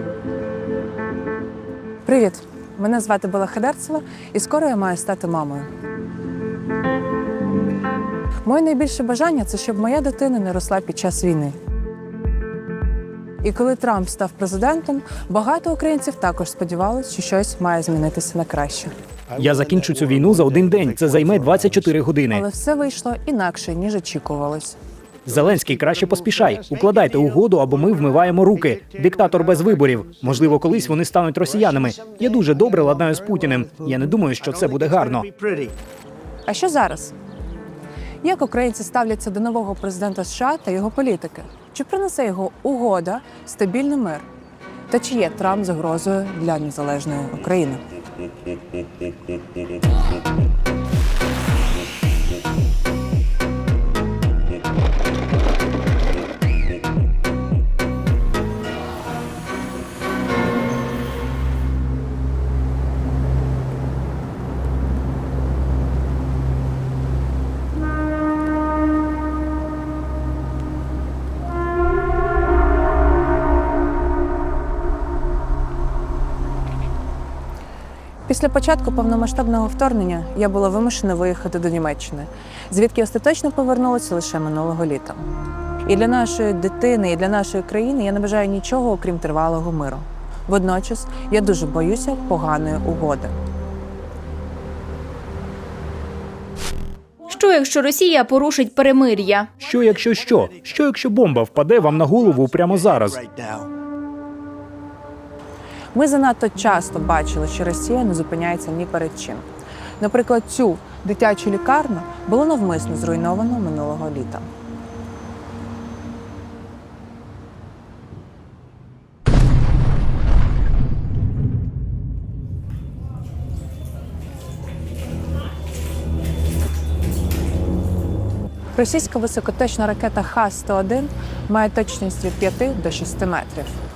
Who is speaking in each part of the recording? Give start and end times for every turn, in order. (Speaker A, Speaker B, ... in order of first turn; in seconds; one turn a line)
Speaker A: 2.0-5.7
Speaker A: 8.4-11.6
Speaker A: 13.4-18.9
Speaker B: 19.4-22.4
Speaker A: 22.3-24.8
Speaker B: 25.3-35.3
Speaker A: 36.5-37.1
Speaker A: 38.2-44.3
Speaker A: 44.9-47.8
Speaker A: 78.3-85.2
Speaker A: 85.9-93.3
Speaker C: 97.3-99.5
Speaker B: 99.6-103.2
Speaker A: 105.9-109.5
Speaker A: 110.0-114.5
Speaker A: 128.8-133.8